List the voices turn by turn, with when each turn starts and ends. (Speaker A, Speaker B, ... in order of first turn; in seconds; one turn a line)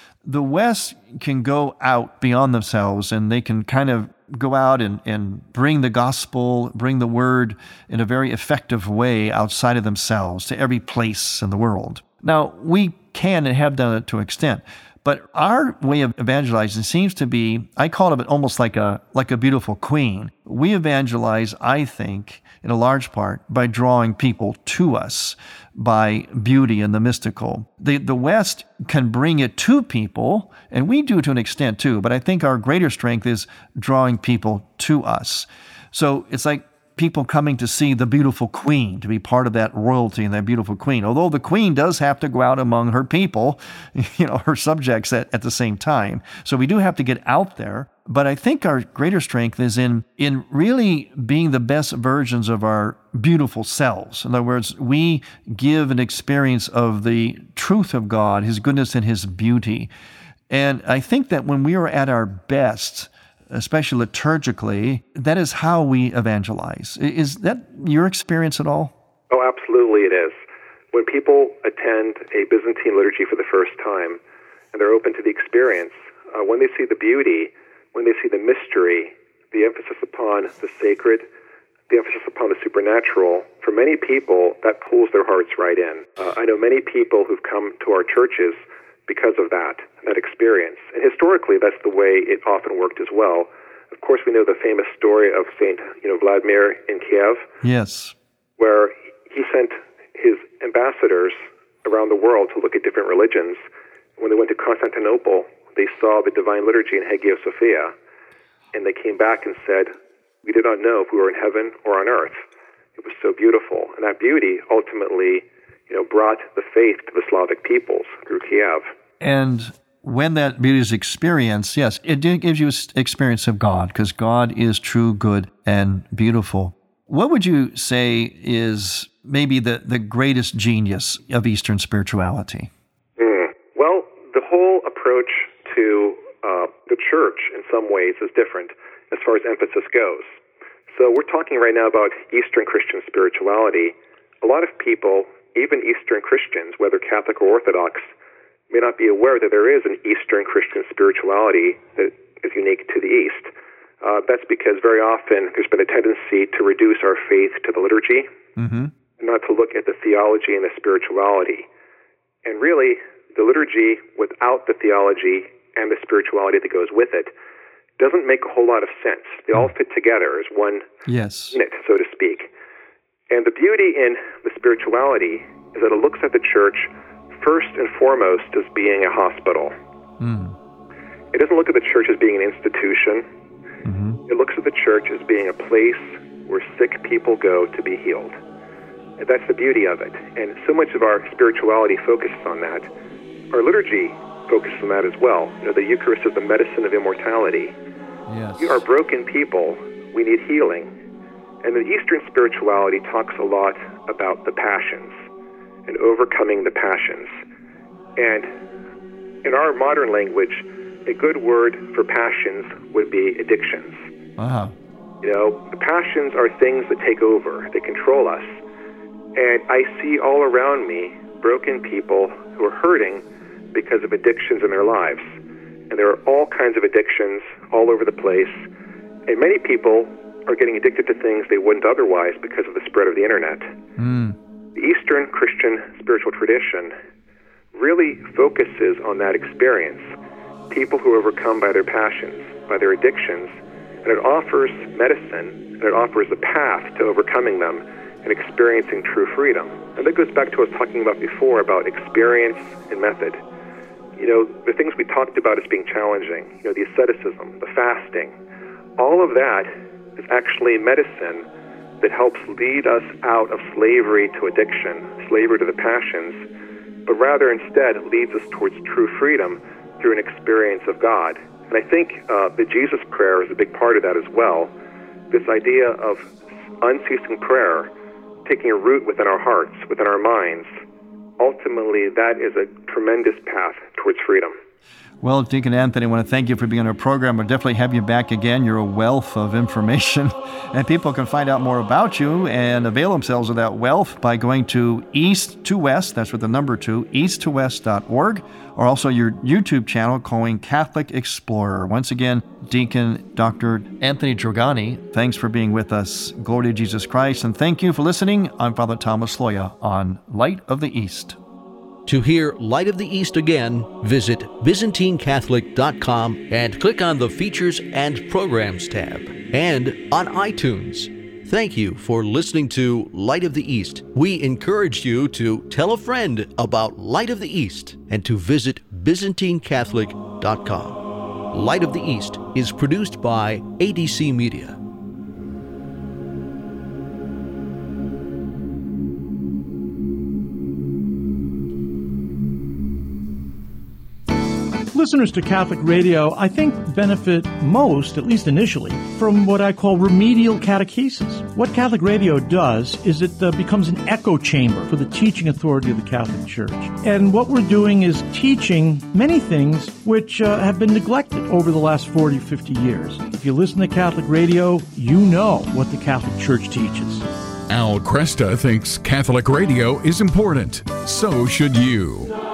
Speaker A: 0.2-59.9
Speaker A: 60.5-68.9
Speaker B: 69.3-70.4
Speaker B: 70.9-74.2
Speaker B: 74.7-81.2
Speaker B: 81.9-97.5
Speaker A: 97.6-98.1
Speaker B: 98.6-103.6
Speaker B: 104.2-107.9
Speaker B: 108.7-109.9
Speaker B: 110.4-112.4
Speaker B: 113.0-118.9
Speaker A: 119.2-132.7
Speaker B: 133.2-140.4
Speaker B: 140.9-148.1
Speaker B: 148.7-153.5
Speaker B: 154.0-158.3
Speaker A: 158.6-158.9
Speaker B: 159.2-161.7
Speaker B: 162.4-167.3
Speaker B: 168.0-170.9
Speaker A: 171.1-171.6
Speaker B: 171.5-172.5
Speaker B: 173.3-179.7
Speaker A: 180.2-180.6
Speaker B: 181.3-183.2
Speaker A: 183.8-184.2
Speaker B: 184.3-188.3
Speaker B: 189.2-192.9
Speaker B: 193.5-197.7
Speaker A: 198.3-198.8
Speaker B: 198.6-200.9
Speaker B: 201.6-205.2
Speaker B: 205.9-207.3
Speaker B: 208.2-208.5
Speaker B: 209.4-214.0
Speaker A: 214.4-214.7
Speaker B: 215.2-218.5
Speaker B: 219.3-223.2
Speaker B: 223.7-225.3
Speaker B: 225.9-228.6
Speaker B: 229.3-233.7
Speaker A: 234.0-234.4
Speaker B: 234.7-236.9
Speaker B: 237.7-240.0
Speaker B: 240.7-253.4
Speaker B: 254.2-258.3
Speaker B: 259.0-261.4
Speaker B: 262.0-266.4
Speaker B: 267.1-274.7
Speaker B: 275.3-276.3
Speaker B: 276.8-277.9
Speaker B: 278.4-280.7
Speaker B: 281.4-284.5
Speaker A: 285.2-311.4
Speaker C: 312.1-331.0
Speaker C: 331.5-334.8
Speaker D: 344.9-367.2
Speaker E: 367.7-372.3